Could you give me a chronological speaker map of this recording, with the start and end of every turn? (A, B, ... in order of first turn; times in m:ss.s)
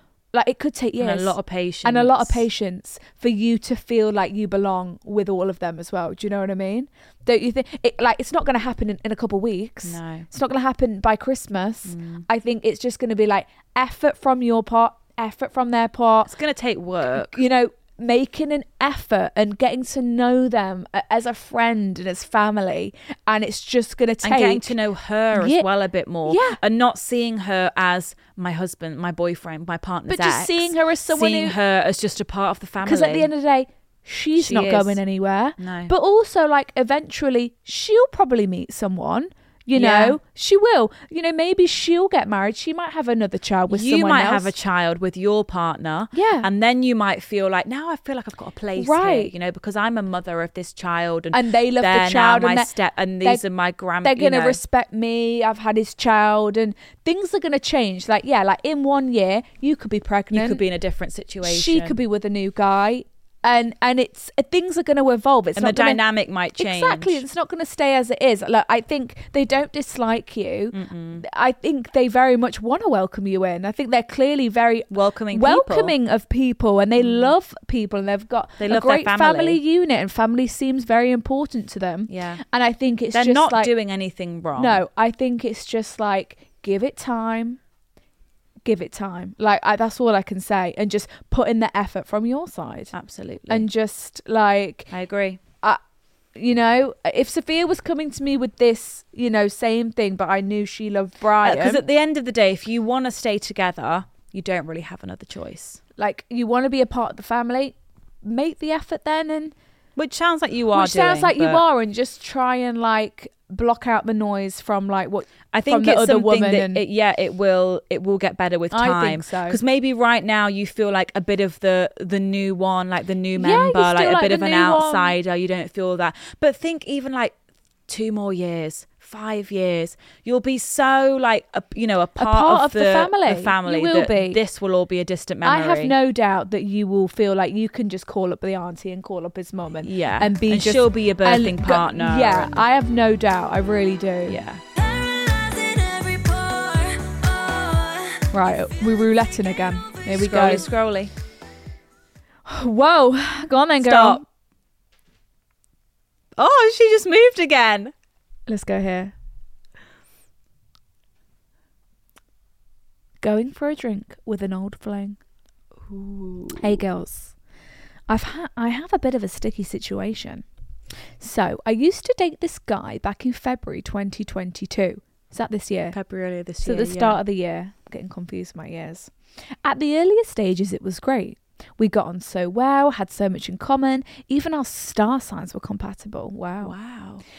0:00.3-0:16.3 A
0:01.0-0:02.4 B
0:09.8-0:10.3 B
0:11.9-0:12.2 B
0:16.2-0:17.4 B
0:17.2-0:24.7 A
0:24.2-0:33.3 B
0:25.3-0:25.6 A
0:26.2-0:26.6 A
0:30.1-0:31.6 A
0:32.8-0:44.5 A
0:34.4-0:35.0 B
0:35.6-0:35.9 B
0:39.7-0:40.2 B
0:43.7-0:54.6 B
0:46.1-0:46.5 A
0:48.8-0:49.3 A
0:51.3-0:52.7 A
0:54.0-1:00.6 A
1:00.3-1:02.0 B
1:01.4-1:06.0 A
1:05.6-1:07.2 B
1:06.6-1:23.7 A
1:10.7-1:11.2 B
1:14.9-1:15.9 B
1:17.0-1:17.3 B
1:18.6-1:19.6 B
1:22.1-1:22.4 B
1:23.1-1:24.8 B
1:24.6-1:27.6 A
1:28.6-1:32.9 A
1:32.9-1:33.7 B
1:33.5-1:34.9 A
1:34.9-1:35.4 B
1:36.3-1:41.8 A
1:41.4-1:45.8 B
1:46.0-1:49.5 A
1:50.0-1:51.6 B
1:50.7-1:56.8 A
1:55.5-2:07.3 B
1:58.7-1:59.6 A
2:03.4-2:05.2 A
2:07.9-2:16.0 B
2:12.2-2:14.4 A
2:15.4-2:24.4 A
2:19.8-2:22.6 B
2:24.2-2:24.6 B
2:24.7-2:28.2 C
2:28.3-2:30.6 A
2:30.1-2:31.1 B
2:32.4-2:34.2 A
2:33.8-2:34.2 B
2:36.4-2:37.9 B
2:38.5-2:39.1 A
2:43.2-2:45.2 A
2:45.9-2:46.8 B
2:46.6-2:47.3 A
2:48.1-2:50.4 A
2:51.2-2:56.0 A
2:55.9-2:57.2 B
2:56.6-2:59.1 A
2:59.6-3:06.7 A
3:06.6-3:07.2 B